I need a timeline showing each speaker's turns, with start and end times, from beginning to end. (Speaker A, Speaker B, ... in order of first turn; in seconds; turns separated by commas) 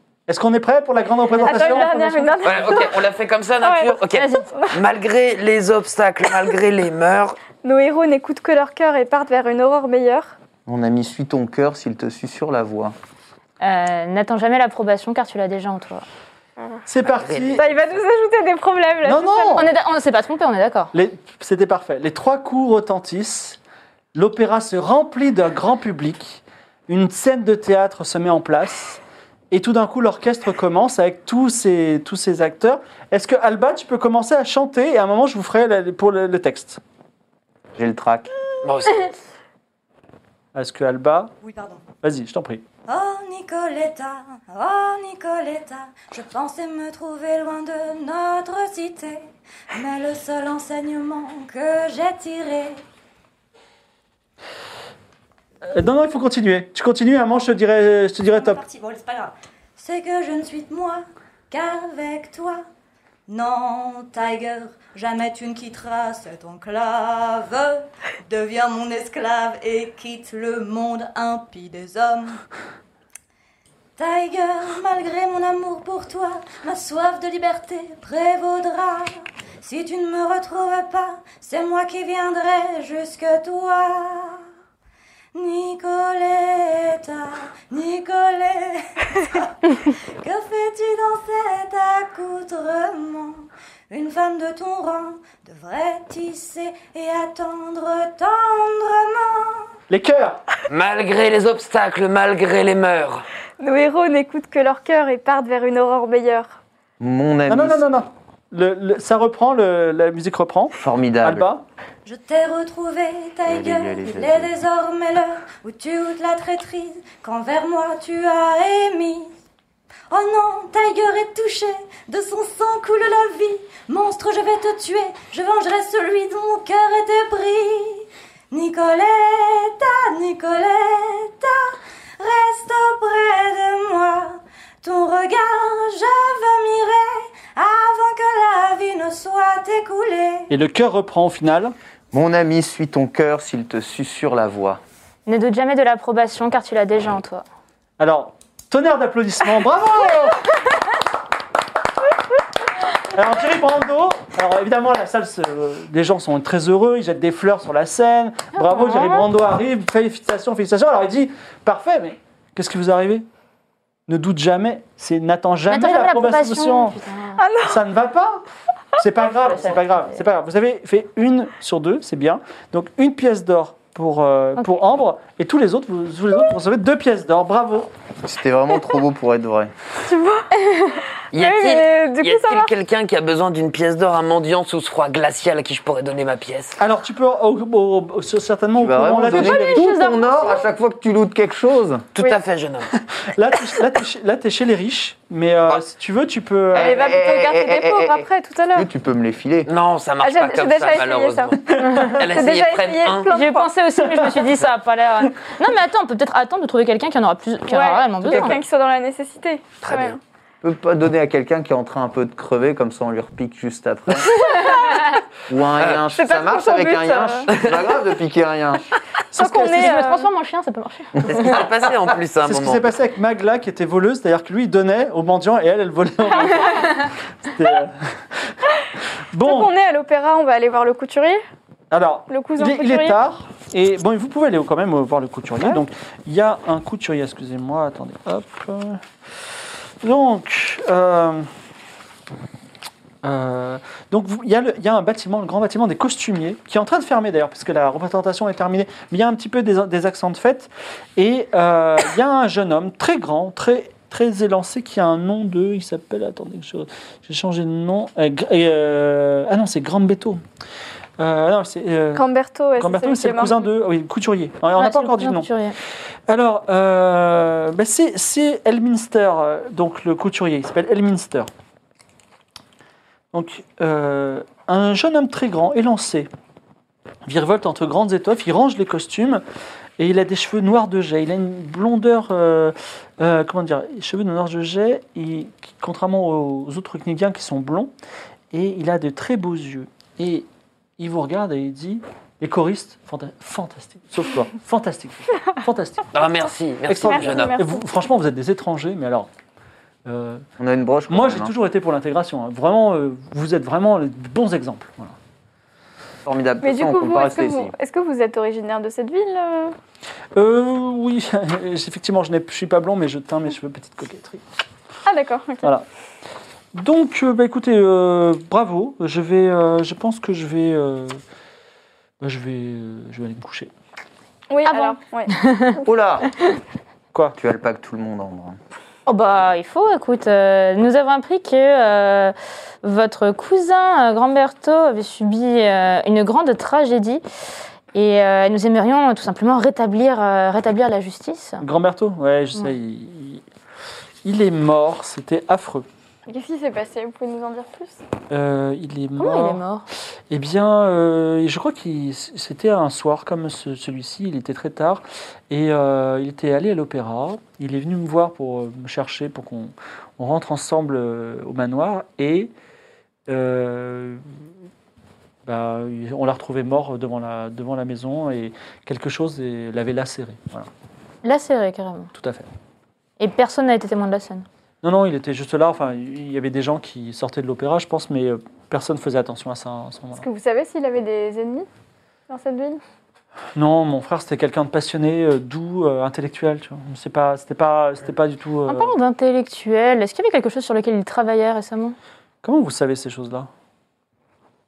Speaker A: 0.3-2.1, Speaker B: 1.3-2.4, Speaker C: 1.4-3.0, Speaker D: 2.4-7.4, Speaker C: 3.6-4.8, Speaker B: 4.1-4.5, Speaker C: 7.6-10.3, Speaker E: 10.7-12.9, Speaker B: 13.6-16.0, Speaker A: 16.9-17.6, Speaker D: 17.0-17.8, Speaker C: 17.5-19.6, Speaker A: 19.0-19.6, Speaker B: 19.6-20.9, Speaker A: 20.9-23.6, Speaker A: 24.1-36.8, Speaker E: 37.8-38.3, Speaker D: 38.6-39.1, Speaker A: 40.5-41.3, Speaker F: 41.4-41.8, Speaker A: 42.0-42.6, Speaker F: 42.9-52.8, Speaker A: 55.7-58.6, Speaker F: 58.3-62.6, Speaker F: 63.3-72.4, Speaker F: 74.0-84.4, Speaker F: 85.3-89.5, Speaker F: 90.2-99.7, Speaker A: 99.9-100.4, Speaker D: 100.7-103.2, Speaker C: 103.6-106.6, Speaker E: 107.0-107.8, Speaker A: 107.5-111.6, Speaker E: 110.8-111.5, Speaker F: 112.0-119.3, Speaker E: 113.5-114.5, Speaker F: 120.1-140.5, Speaker A: 140.5-141.7, Speaker E: 142.1-144.8, Speaker B: 145.3-147.4, Speaker A: 148.0-150.5, Speaker A: 153.1-163.2, Speaker B: 158.5-159.3, Speaker A: 164.1-166.9, Speaker B: 165.7-167.4, Speaker C: 167.4-167.8, Speaker A: 167.6-168.4, Speaker A: 169.0-177.9, Speaker B: 169.5-170.2, Speaker E: 178.2-179.7, Speaker C: 180.0-180.5, Speaker C: 181.3-182.7, Speaker D: 181.3-186.8, Speaker A: 186.8-190.0, Speaker E: 188.8-192.1, Speaker B: 189.2-190.6, Speaker D: 192.2-192.9, Speaker A: 193.2-197.1, Speaker E: 196.7-199.7, Speaker C: 196.8-198.9, Speaker D: 199.7-201.6, Speaker C: 200.2-203.7, Speaker B: 201.8-202.2, Speaker D: 202.1-203.3, Speaker B: 203.3-208.6, Speaker C: 207.7-210.2, Speaker D: 209.8-210.2, Speaker E: 210.6-214.4, Speaker C: 214.3-215.2, Speaker E: 215.5-218.9, Speaker C: 216.1-217.5, Speaker D: 217.5-217.8, Speaker A: 219.3-220.1, Speaker C: 219.3-220.2, Speaker B: 219.7-221.3, Speaker E: 221.2-221.6, Speaker D: 221.2-222.8, Speaker A: 222.4-228.5, Speaker A: 229.3-229.7, Speaker C: 229.4-231.4, Speaker A: 231.9-239.0, Speaker C: 232.3-233.2, Speaker A: 240.0-241.5, Speaker A: 243.2-260.4, Speaker A: 261.2-262.2, Speaker C: 262.1-263.6, Speaker A: 262.8-265.5, Speaker B: 264.8-265.8, Speaker A: 266.3-271.5, Speaker A: 273.3-276.3, Speaker A: 277.2-279.4, Speaker A: 280.0-287.9, Speaker A: 288.5-290.5, Speaker A: 291.0-296.1, Speaker D: 296.1-297.6, Speaker A: 296.9-299.3, Speaker C: 297.0-297.8, Speaker A: 300.0-300.4, Speaker E: 300.6-301.5, Speaker A: 301.1-305.1, Speaker E: 306.2-307.7, Speaker C: 306.6-309.7, Speaker A: 310.3-314.4, Speaker C: 315.1-315.7, Speaker A: 316.7-321.2, Speaker A: 322.2-323.7, Speaker C: 324.5-325.8, Speaker B: 324.6-325.8, Speaker E: 325.8-326.2, Speaker E: 327.4-328.6, Speaker B: 329.1-337.2, Speaker B: 337.9-341.6, Speaker A: 341.6-343.4, Speaker A: 344.2-345.9, Speaker C: 346.3-348.0, Speaker A: 348.3-349.6, Speaker B: 349.2-349.9, Speaker A: 350.3-362.5, Speaker A: 363.3-364.2, Speaker A: 365.4-370.7, Speaker B: 371.2-372.1, Speaker A: 372.1-372.5, Speaker B: 373.2-374.4, Speaker A: 374.8-380.2, Speaker C: 380.1-381.7, Speaker C: 382.3-382.8, Speaker A: 383.6-388.9, Speaker B: 388.7-391.9, Speaker A: 392.4-393.5